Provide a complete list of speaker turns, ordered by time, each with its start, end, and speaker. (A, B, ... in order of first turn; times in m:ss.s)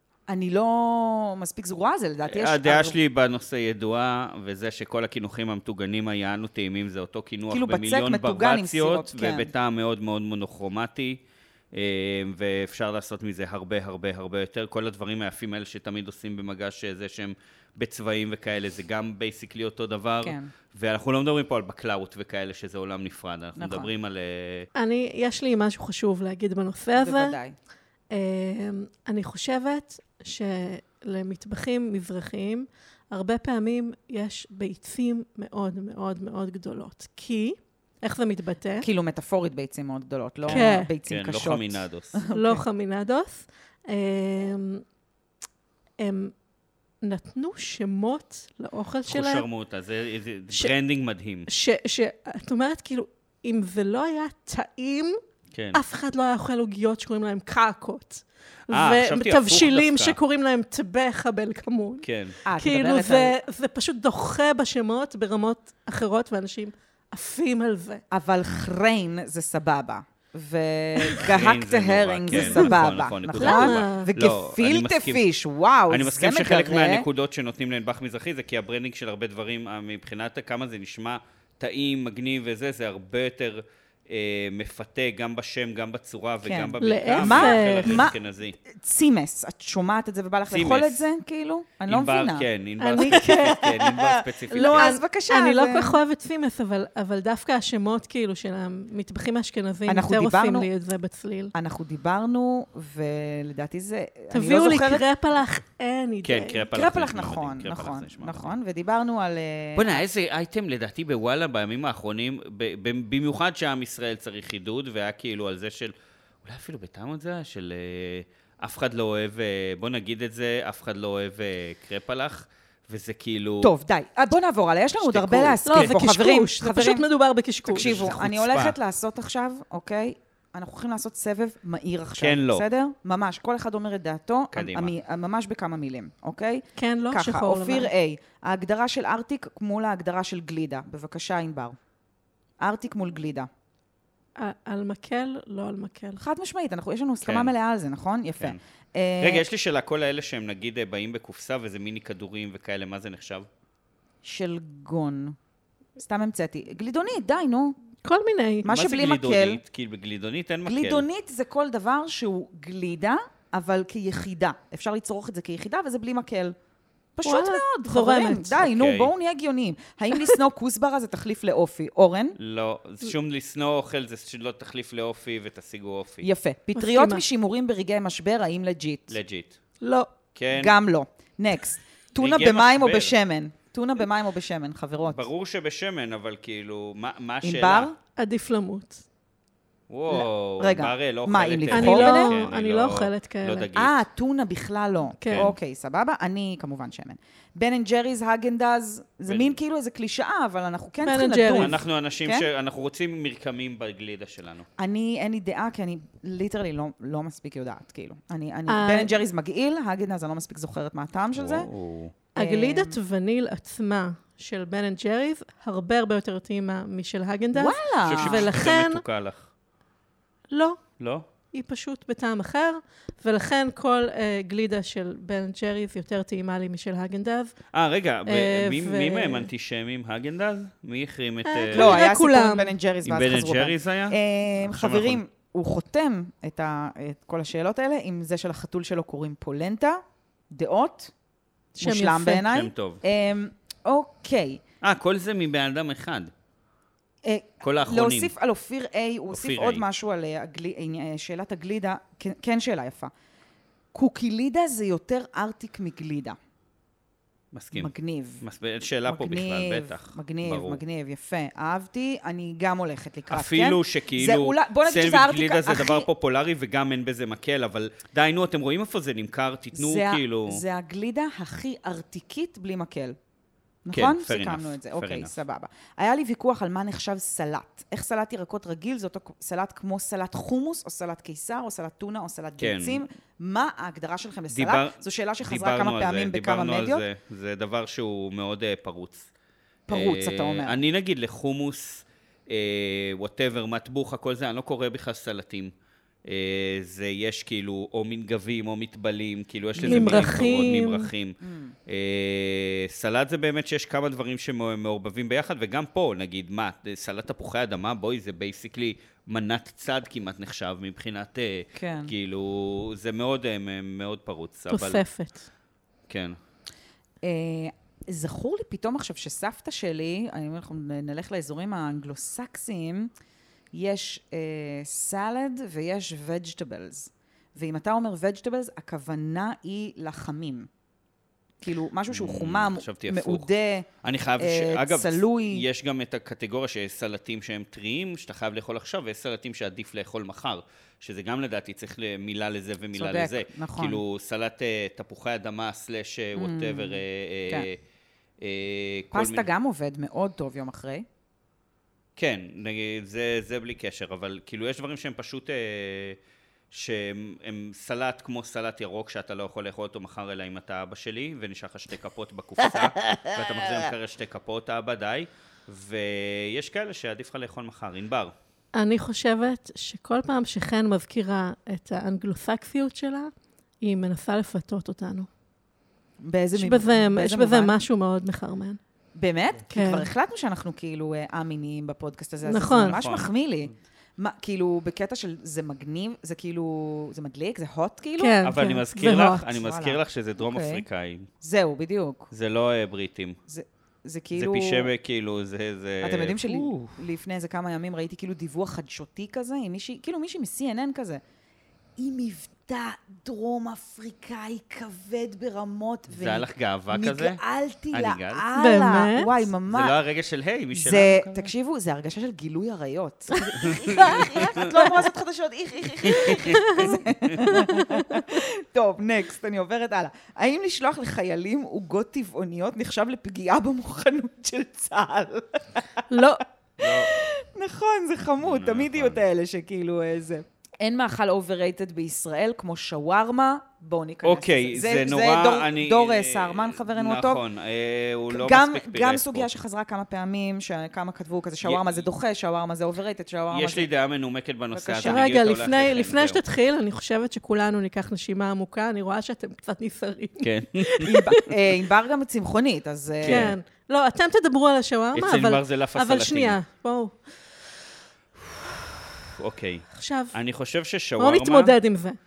0:00.3-0:03.0 A
0:02.3-0:11.2 B
0:07.5-0:09.5 A
0:11.7-0:24.7 B
0:20.2-0:20.5 A
0:23.6-0:23.9 A
0:24.8-0:27.4 C
0:27.0-0:27.6 A
0:28.1-0:38.9 C
0:38.8-0:42.6 A
0:40.4-0:42.2 B
0:40.5-0:40.9 C
0:42.3-0:44.8 C
0:46.0-0:46.3 C
0:47.0-0:49.4 C
0:49.1-0:51.5 B
0:51.5-0:55.2 C
0:55.5-0:55.8 B
0:55.7-1:08.0 C
0:58.7-1:00.2 B
1:02.0-1:02.4 B
1:02.5-1:03.4 A
1:08.1-1:17.1 A
1:11.2-1:15.3 B
1:12.3-1:12.8 C
1:13.4-1:14.1 C
1:15.9-1:28.6 B
1:26.4-1:32.5 A
1:26.8-1:28.1 C
1:30.5-1:31.1 B
1:31.9-1:34.9 B
1:32.8-1:33.6 C
1:33.0-1:36.0 A
1:34.5-1:41.5 C
1:39.9-1:40.7 A
1:41.5-1:45.0 A
1:44.3-1:46.6 C
1:46.2-1:48.6 B
1:46.7-1:50.0 A
1:49.8-1:55.9 B
1:56.4-2:03.7 B
2:03.6-2:07.0 A
2:05.0-2:06.0 B
2:05.7-2:08.0 C
2:07.7-2:08.8 B
2:07.7-2:21.8 A
2:12.2-2:12.6 B
2:14.5-2:14.9 B
2:16.8-2:17.9 C
2:22.6-2:23.5 A
2:24.4-2:26.2 C
2:26.2-2:29.4 A
2:27.2-2:27.5 B
2:29.2-2:33.5 B
2:34.2-2:35.4 A
2:36.0-2:37.8 A
2:38.0-2:38.7 C
2:38.6-2:39.6 A
2:38.7-2:41.1 B
2:40.6-2:46.6 A
2:47.2-2:52.4 A
2:47.2-2:48.6 C
2:48.6-2:49.1 B
2:52.4-2:56.2 B
2:56.2-2:59.2 A
2:56.8-2:57.2 C
2:59.1-2:59.6 B
2:59.8-3:00.1 C
3:00.4-3:00.7 B
3:00.5-3:05.2 A
3:02.2-3:03.2 B
3:05.1-3:07.9 B
3:07.4-3:08.0 A
3:08.2-3:09.0 C
3:09.9-3:14.0 B
3:10.1-3:12.4 A
3:11.7-3:13.7 C
3:13.8-3:22.5 A
3:15.2-3:15.5 C
3:15.3-3:15.6 B
3:19.3-3:19.6 B
3:21.0-3:21.8 C
3:21.6-3:24.7 B
3:24.8-3:31.7 A
3:28.7-3:29.2 C
3:31.4-3:32.1 B
3:32.4-3:39.0 C
3:32.4-3:33.0 A
3:37.5-3:38.5 A
3:38.1-3:39.5 B
3:40.5-3:40.8 C
3:41.0-3:41.3 B
3:41.5-3:47.5 C
3:47.7-3:52.1 B
3:48.3-3:49.5 C
3:51.4-3:52.7 C
3:51.7-4:01.1 A
3:53.0-3:55.2 B
4:01.8-4:02.5 C
4:01.8-4:04.6 A
4:02.4-4:03.0 B
4:04.8-4:06.3 B
4:07.2-4:13.1 A
4:07.6-4:08.3 B
4:09.3-4:09.8 B
4:13.9-4:16.4 A
4:17.5-4:20.8 B
4:17.8-4:18.4 A
4:19.0-4:26.1 A
4:23.3-4:30.6 B
4:29.7-4:33.2 A
4:33.8-4:47.0 A
4:33.9-4:35.3 B
4:42.6-4:43.0 B
4:44.5-4:49.3 B
4:49.9-4:50.8 A
4:49.9-4:55.7 B
4:56.3-5:01.4 B
4:59.8-5:00.4 A
4:59.8-5:01.1 C
5:01.4-5:01.8 A
5:01.9-5:15.0 B
5:11.8-5:12.1 A
5:14.7-5:15.5 C
5:16.1-5:16.4 B
5:17.2-5:23.1 A
5:23.7-5:30.7 A
5:31.6-5:33.9 A
5:32.1-5:33.5 B
5:34.0-5:47.8 B
5:34.4-5:35.6 A
5:43.0-5:44.0 A
5:46.4-5:47.7 A
5:48.4-5:49.5 B
5:49.1-5:51.0 A
5:52.2-5:56.2 B
5:56.7-6:08.3 B
6:08.7-6:13.3 C
6:13.8-6:15.3 C
6:16.2-6:17.8 A
6:16.6-6:18.8 C
6:19.2-6:28.4 A
6:19.7-6:20.1 C
6:22.5-6:23.0 C
6:22.8-6:23.3 B
6:28.2-6:29.5 C
6:28.4-6:31.3 B
6:29.5-6:30.8 A
6:31.4-6:32.3 A
6:32.3-6:33.4 B
6:33.5-6:34.9 A
6:34.4-6:36.9 B
6:36.0-6:41.2 A
6:42.0-6:50.0 A
6:46.1-6:47.4 B
6:47.9-6:48.4 B
6:48.6-6:49.3 C
6:49.7-6:51.5 B
6:50.7-7:17.4 A
6:53.6-6:54.7 B
6:56.0-6:57.6 B
6:56.6-6:56.9 C
7:06.1-7:06.4 C
7:06.8-7:07.1 B
7:08.4-7:09.2 B
7:14.2-7:19.5 B
7:18.3-7:23.9 A
7:21.6-7:22.1 B
7:23.5-7:26.4 B
7:24.7-7:25.3 A
7:25.0-7:31.4 C
7:30.4-7:31.1 B
7:31.0-7:33.6 A
7:33.2-7:33.6 B
7:33.3-7:37.1 C
7:35.1-7:36.6 B
7:38.4-7:41.8 B
7:40.0-7:40.3 C
7:41.2-7:42.2 C